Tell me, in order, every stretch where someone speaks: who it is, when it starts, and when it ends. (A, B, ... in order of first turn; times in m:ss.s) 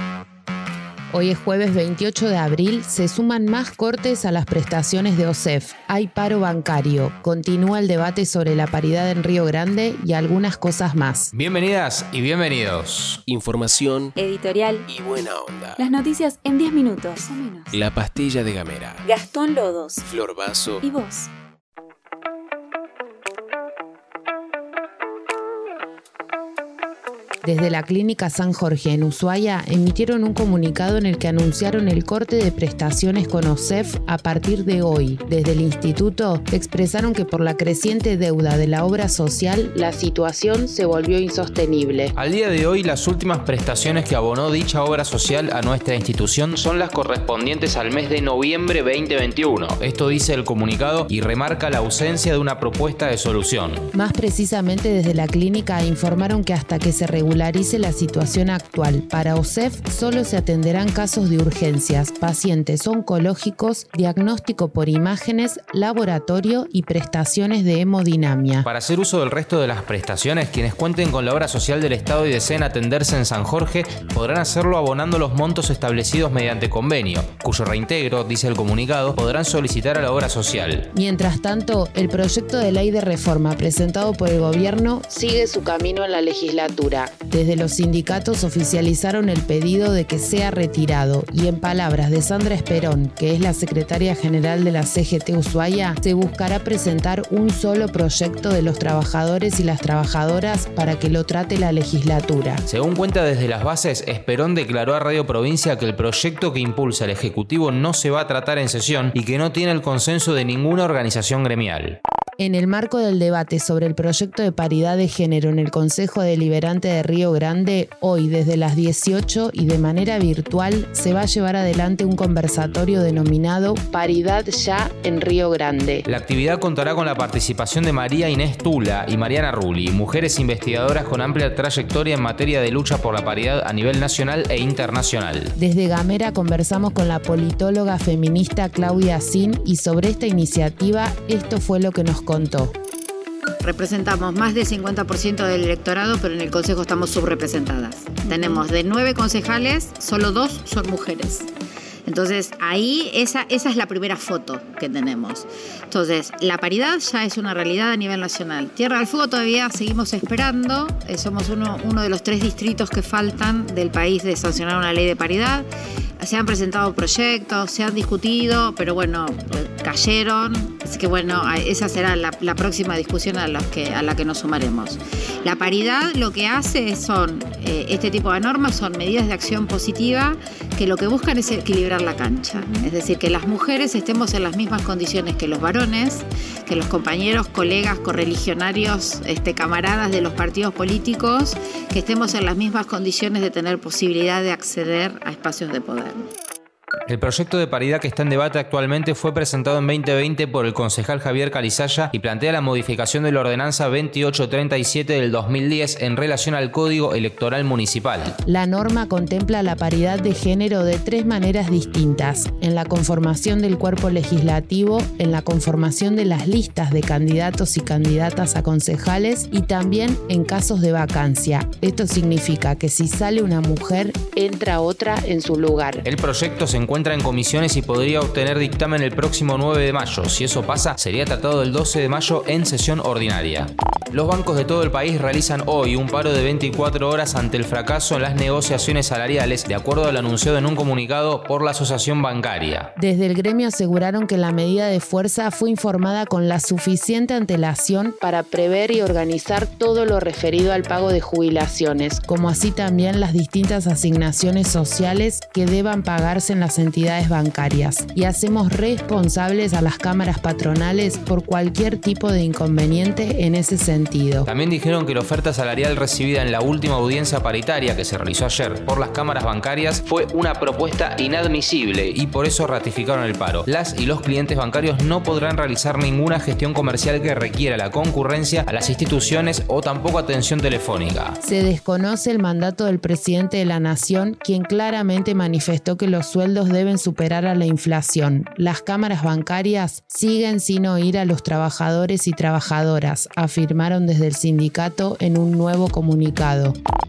0:01.1-0:11.3 A
0:11.3-0:13.2 B
0:13.3-0:14.1 C
0:14.2-0:14.8 D
0:14.9-0:15.8 C
0:15.8-0:17.8 D
0:17.7-0:19.0 C
0:19.0-0:20.1 D
0:20.0-0:20.8 C
0:20.8-0:21.3 D
0:27.4-0:42.1 A
0:42.1-0:53.9 B
0:53.9-1:08.7 A
1:08.6-1:20.9 B
1:20.9-1:42.6 A
1:42.7-1:52.0 B
1:52.4-2:06.0 A
2:06.0-2:15.5 B
2:15.6-2:22.7 A
2:23.6-2:31.5 E
2:28.3-2:28.6 D
2:32.0-2:45.7 E
2:46.2-3:16.2 E
3:17.1-3:28.4 B
3:28.4-3:46.0 A
3:46.0-4:02.9 B
4:03.0-4:24.5 A
4:24.4-4:41.4 B
4:41.4-4:56.8 A